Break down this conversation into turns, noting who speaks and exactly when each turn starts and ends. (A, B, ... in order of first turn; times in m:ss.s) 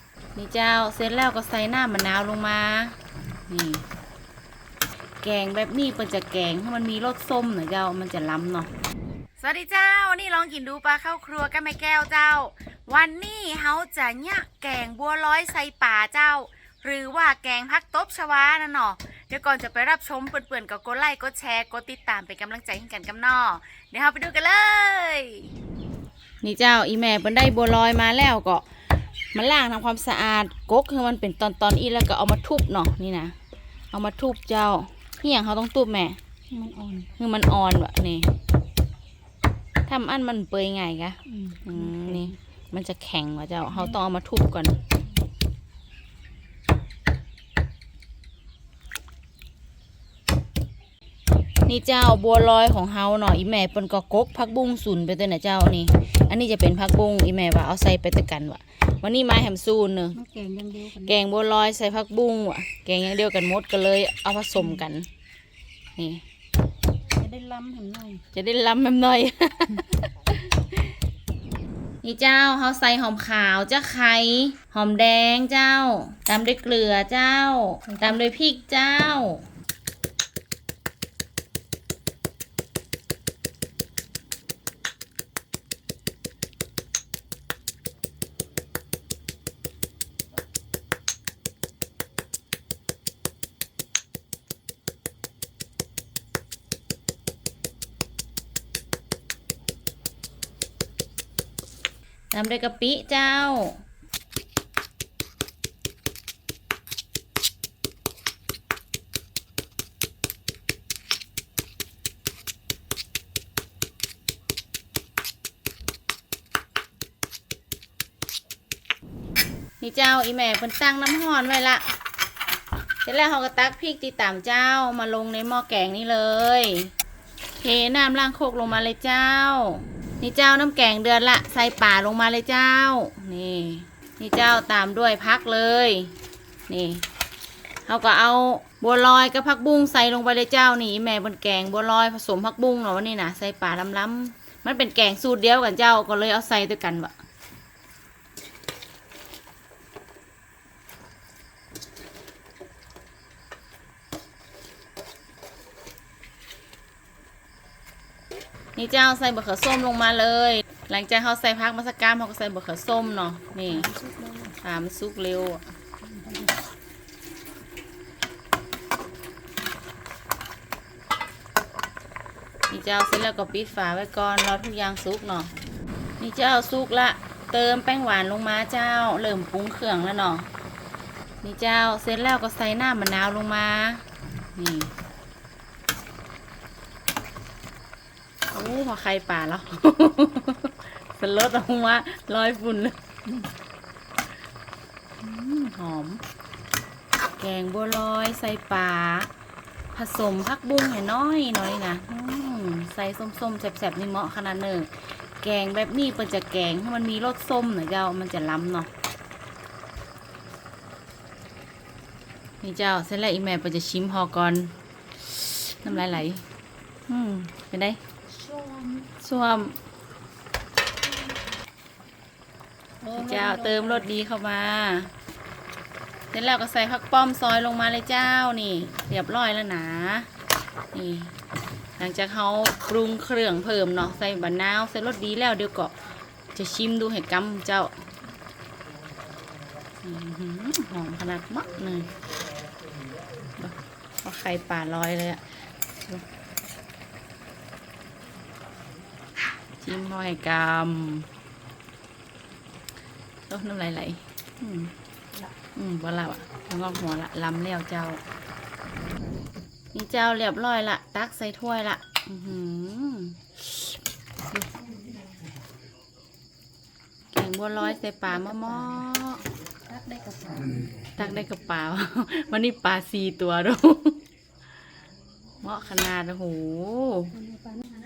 0:00.4-0:03.0 A
0:03.5-0:03.8 A
0:05.2-0:08.7 A
0:09.4-0:25.5 A
0:26.4-0:28.6 A
0:29.3-0:33.4 A
0:33.9-0:36.2 A
0:36.5-0:37.1 B
0:37.2-0:38.3 A
0:39.9-0:44.8 A
0:41.3-0:42.3 B
0:51.7-1:00.2 A
1:00.1-1:01.2 B
1:01.0-1:05.1 A
1:06.0-1:06.2 A
1:07.2-1:08.2 B
1:08.3-1:10.9 A
1:12.0-1:19.4 A
1:17.9-1:18.2 B
1:42.3-1:43.8 A
1:59.8-2:01.8 A
2:03.0-2:06.9 A
2:07.6-2:16.1 A
2:16.7-2:17.0 A
2:17.9-2:27.1 A
2:38.8-2:43.9 A
2:43.7-2:44.6 B
2:44.6-2:45.6 A
2:46.0-2:46.6 B
2:52.7-2:55.5 A
2:56.2-3:00.5 A
3:01.4-3:04.0 A
3:04.6-3:04.9 A
3:08.5-3:13.0 A
3:15.2-3:16.2 A
3:17.4-3:19.3 A
3:19.9-3:28.9 A
3:32.6-3:36.4 A
3:37.1-3:38.0 A
3:38.4-3:39.0 B
3:39.1-3:39.8 A
3:43.0-3:44.1 B
3:43.1-3:45.1 A
3:46.3-3:50.3 A
3:50.9-3:51.3 A
3:52.0-3:56.0 A
3:56.6-3:58.0 A
4:00.0-4:02.1 A
4:03.6-4:05.4 A
4:06.0-4:06.2 A
4:09.8-4:11.3 A
4:13.5-4:14.9 A
4:15.8-4:18.2 A
4:19.9-4:23.8 A
4:27.3-4:29.4 A
4:28.2-4:29.1 B
4:29.9-4:30.9 B
4:31.2-4:34.2 A
4:35.6-4:37.3 A
4:37.3-4:38.0 B